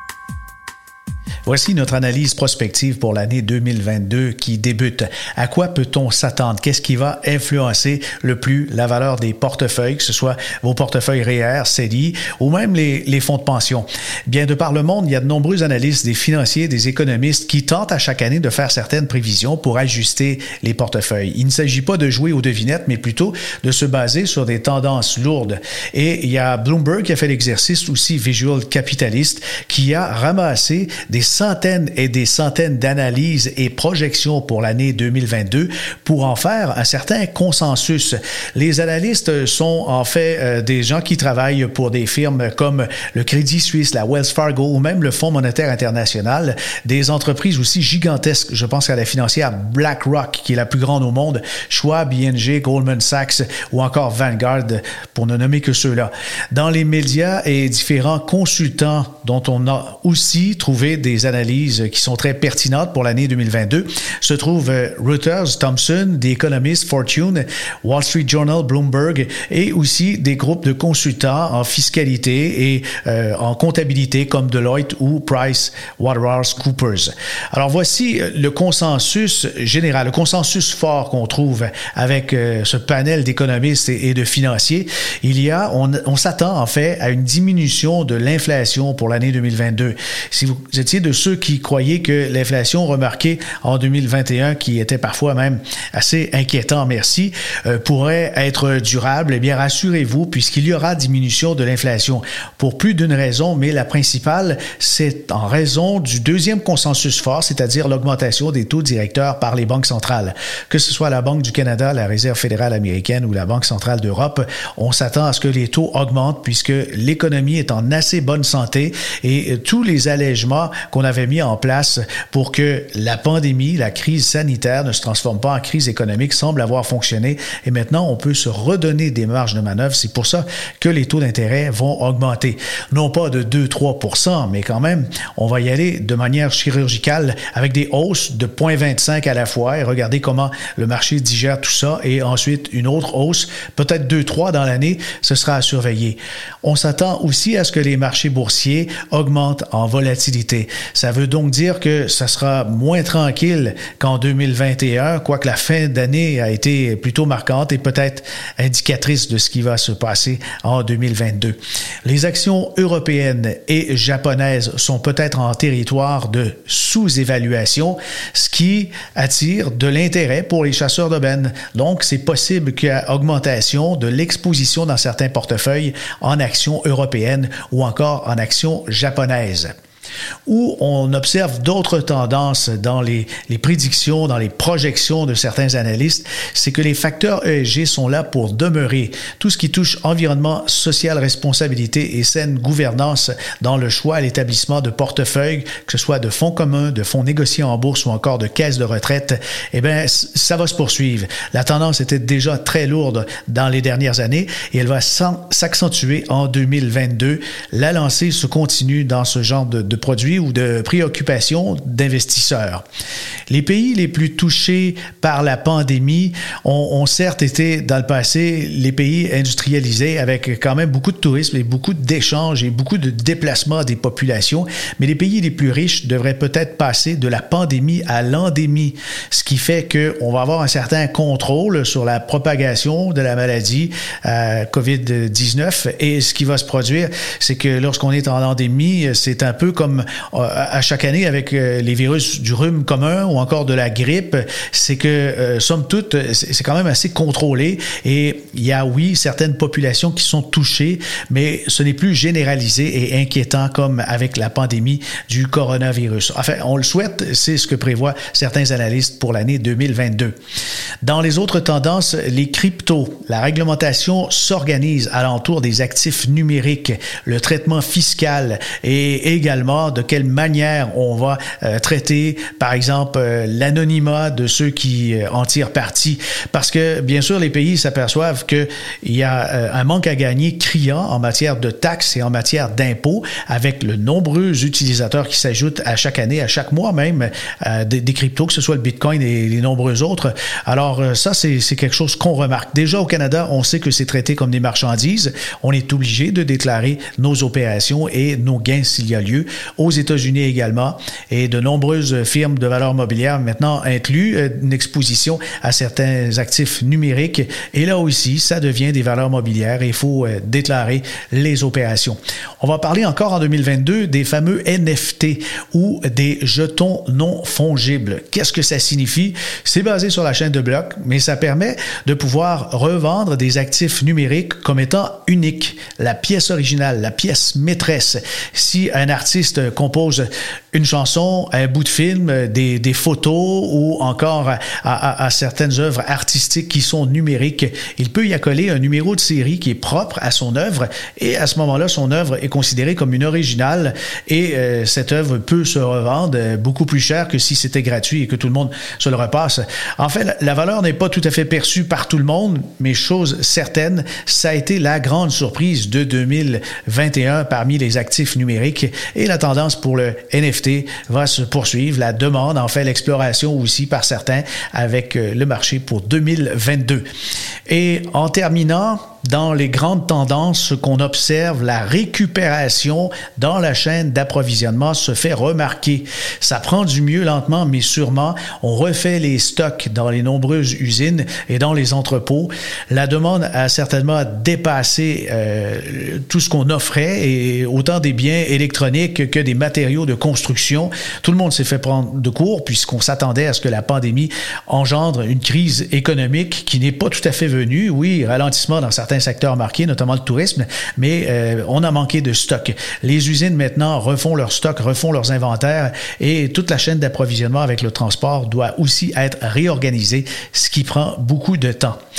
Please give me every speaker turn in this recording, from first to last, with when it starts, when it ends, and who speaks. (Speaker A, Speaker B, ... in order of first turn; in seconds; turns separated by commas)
Speaker A: 1.5-179.7, Speaker A: 180.4-212.8, Speaker A: 213.5-260.4, Speaker A: 261.0-367.0, Speaker A: 367.7-412.0